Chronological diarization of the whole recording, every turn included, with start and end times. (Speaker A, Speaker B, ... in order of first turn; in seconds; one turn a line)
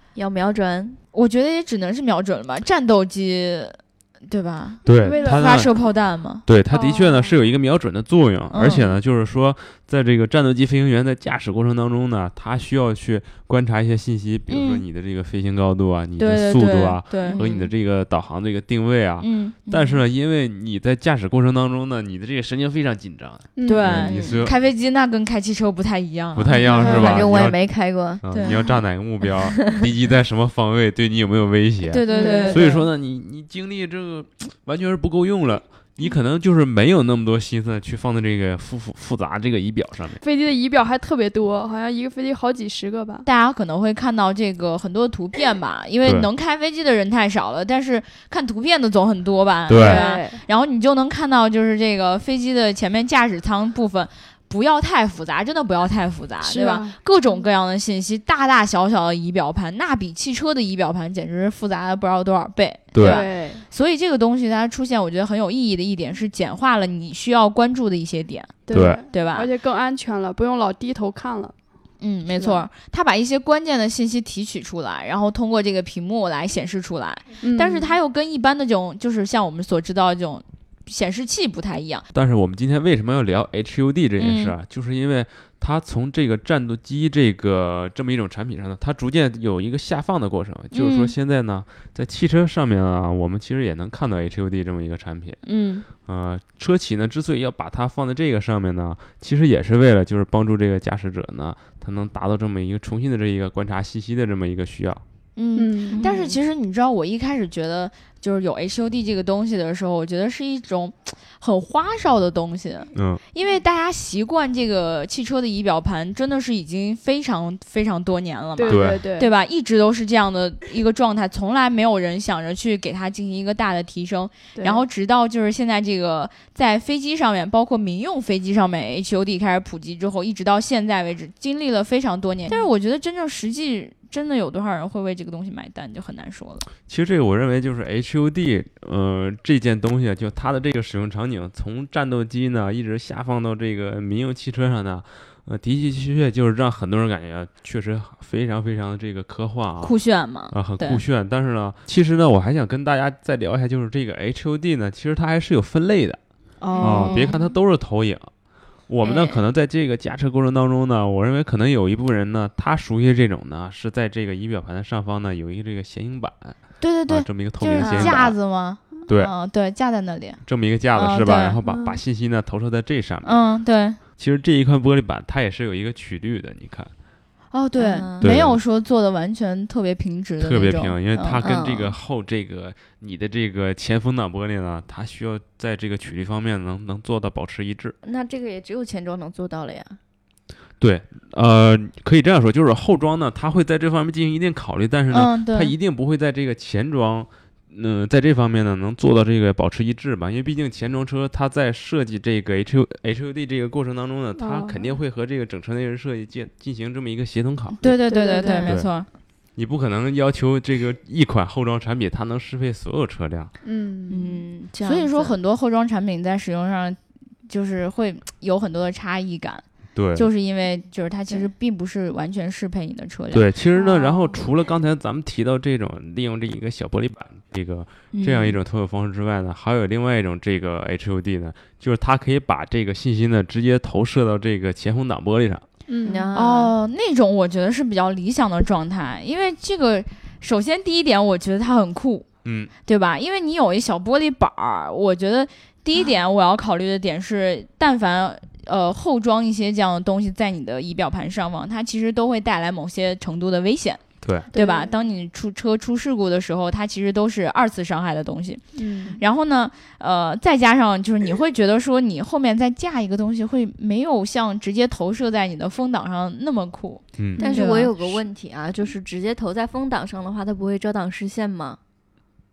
Speaker A: 0.1-1.0
Speaker B: 1.1-6.4
Speaker C: 4.9-5.7
Speaker D: 5.0-5.8
Speaker C: 6.5-24.6
Speaker D: 6.7-7.3
Speaker B: 8.5-8.9
Speaker B: 14.5-14.8
Speaker B: 16.2-17.4
Speaker A: 17.2-17.7
Speaker B: 19.2-19.6
Speaker A: 19.7-20.0
Speaker D: 23.6-23.9
Speaker B: 23.6-27.4
Speaker A: 24.0-24.4
Speaker C: 26.4-40.2
Speaker A: 26.5-29.8
Speaker B: 28.3-28.6
Speaker B: 31.9-32.7
Speaker D: 32.1-32.8
Speaker A: 32.1-32.7
Speaker D: 40.2-43.3
Speaker B: 43.2-69.5
Speaker C: 46.0-46.3
Speaker C: 49.7-50.0
Speaker D: 49.7-50.4
Speaker D: 56.4-57.0
Speaker C: 62.9-63.2
Speaker D: 63.0-63.6
Speaker D: 68.7-71.5
Speaker C: 68.7-69.0
Speaker B: 72.0-82.1
Speaker D: 72.4-72.6
Speaker D: 77.4-78.0
Speaker C: 82.1-95.4
Speaker B: 84.2-84.5
Speaker B: 90.7-91.1
Speaker B: 95.4-95.9
Speaker C: 96.0-105.0
Speaker B: 105.4-136.7
Speaker D: 105.6-106.0
Speaker A: 105.9-106.4
Speaker C: 113.0-113.2
Speaker D: 118.6-119.3
Speaker C: 118.7-119.0
Speaker D: 124.5-124.8
Speaker C: 136.9-149.9
Speaker B: 149.8-151.0
Speaker C: 150.5-156.2
Speaker B: 156.6-157.4
Speaker D: 156.7-157.4
Speaker C: 156.8-158.3
Speaker A: 157.1-157.3
Speaker C: 158.9-168.4
Speaker A: 159.0-159.4
Speaker B: 166.8-170.4
Speaker A: 167.8-168.2
Speaker C: 170.4-173.4
Speaker B: 170.9-171.6
Speaker D: 171.7-172.0
Speaker B: 173.2-174.0
Speaker C: 174.2-176.9
Speaker B: 177.5-181.4
Speaker A: 177.8-178.4
Speaker C: 178.2-178.6
Speaker C: 180.4-187.9
Speaker A: 181.4-182.0
Speaker A: 188.0-190.0
Speaker C: 190.8-207.9
Speaker B: 195.1-195.7
Speaker D: 204.4-204.9
Speaker B: 207.8-209.1
Speaker D: 207.8-208.7
Speaker C: 208.7-208.9
Speaker C: 209.6-213.5
Speaker D: 213.6-214.4
Speaker A: 214.1-215.3
Speaker B: 214.8-223.4
Speaker C: 219.9-220.3
Speaker C: 223.3-235.7
Speaker D: 223.8-224.1
Speaker D: 235.9-236.3
Speaker A: 236.0-236.7
Speaker B: 236.3-242.3
Speaker C: 242.4-242.7
Speaker B: 242.9-258.6
Speaker C: 254.2-254.5
Speaker D: 254.5-254.9
Speaker D: 258.8-259.2
Speaker B: 259.2-268.1
Speaker C: 267.2-267.4
Speaker A: 267.4-271.8
Speaker D: 267.4-267.7